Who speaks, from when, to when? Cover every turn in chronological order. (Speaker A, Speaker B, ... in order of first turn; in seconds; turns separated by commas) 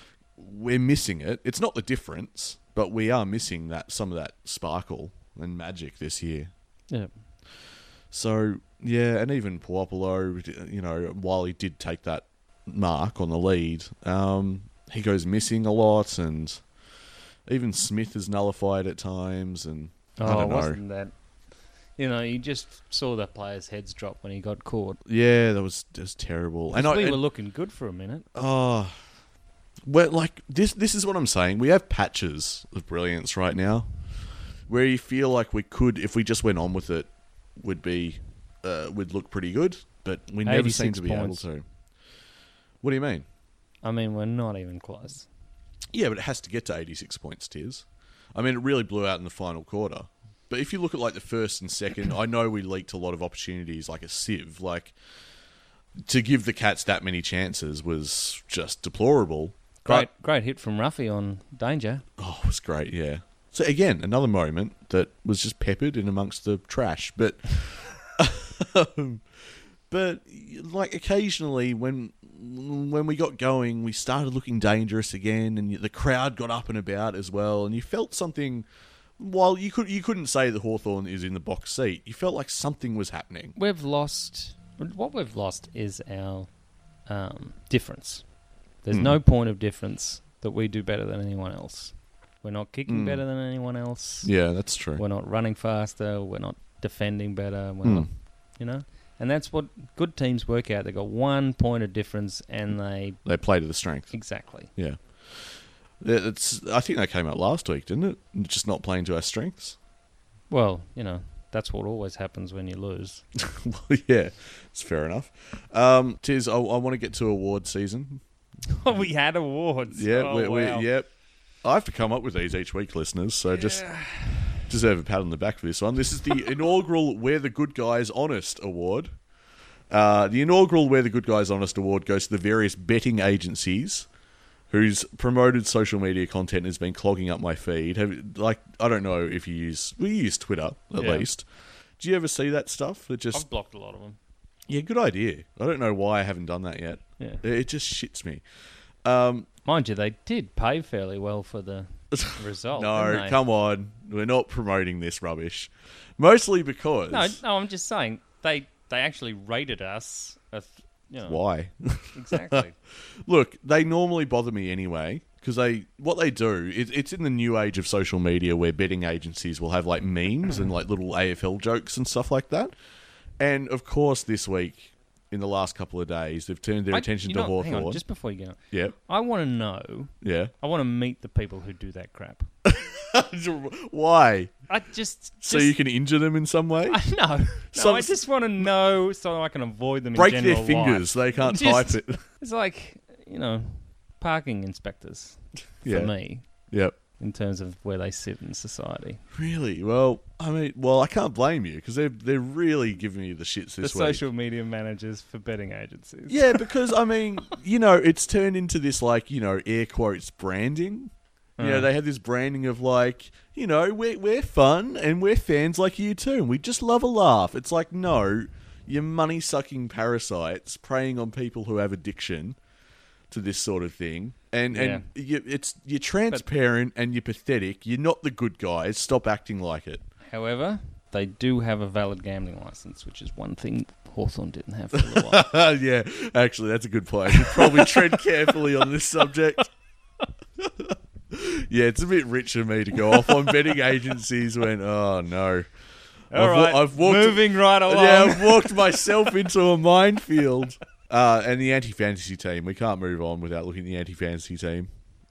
Speaker A: 0.4-6.5, Speaker A: 8.1-16.6, Speaker A: 17.5-20.8, Speaker B: 20.2-21.1, Speaker B: 22.0-25.0, Speaker A: 25.1-27.2, Speaker B: 26.7-28.3, Speaker A: 28.4-28.9, Speaker A: 29.9-33.9, Speaker A: 34.7-41.6, Speaker B: 40.5-41.5, Speaker A: 42.8-43.3, Speaker B: 43.8-45.3, Speaker A: 45.9-55.0, Speaker A: 56.0-60.1, Speaker B: 59.9-62.0, Speaker A: 62.2-69.2, Speaker A: 69.9-78.7, Speaker A: 79.2-83.6, Speaker B: 83.6-86.5, Speaker B: 87.1-88.3, Speaker B: 88.8-94.3, Speaker A: 88.9-89.2, Speaker A: 92.9-93.2, Speaker A: 94.2-95.0, Speaker B: 95.0-103.2, Speaker A: 103.2-104.2, Speaker B: 104.1-104.7, Speaker A: 104.8-109.8, Speaker B: 110.5-113.2, Speaker A: 113.4-118.2, Speaker B: 118.7-120.9, Speaker A: 119.9-121.1, Speaker A: 121.6-123.8, Speaker B: 123.5-124.6, Speaker A: 124.7-129.1, Speaker A: 129.9-134.1, Speaker A: 134.7-141.4, Speaker B: 141.0-141.3, Speaker A: 142.0-143.4, Speaker B: 143.3-144.2, Speaker A: 144.7-148.4, Speaker A: 149.0-149.5, Speaker B: 149.7-153.4, Speaker A: 152.1-157.4, Speaker B: 157.1-161.4, Speaker A: 161.2-162.6, Speaker B: 162.1-162.8, Speaker A: 163.2-172.7, Speaker A: 173.4-178.0, Speaker B: 176.9-182.5, Speaker A: 180.2-180.5, Speaker A: 182.7-184.5, Speaker B: 184.7-185.8, Speaker A: 185.4-187.0, Speaker B: 186.9-196.5, Speaker A: 187.7-188.2, Speaker A: 190.2-192.2, Speaker A: 195.8-196.1, Speaker A: 196.7-196.9, Speaker B: 197.2-199.2, Speaker A: 199.3-204.2, Speaker B: 203.8-206.9, Speaker A: 206.3-222.6, Speaker B: 211.6-211.9, Speaker A: 223.3-230.0, Speaker B: 224.7-225.1, Speaker B: 230.3-235.4, Speaker A: 234.9-239.7, Speaker B: 237.3-238.2, Speaker A: 240.6-245.7, Speaker B: 246.3-249.2, Speaker A: 246.3-254.9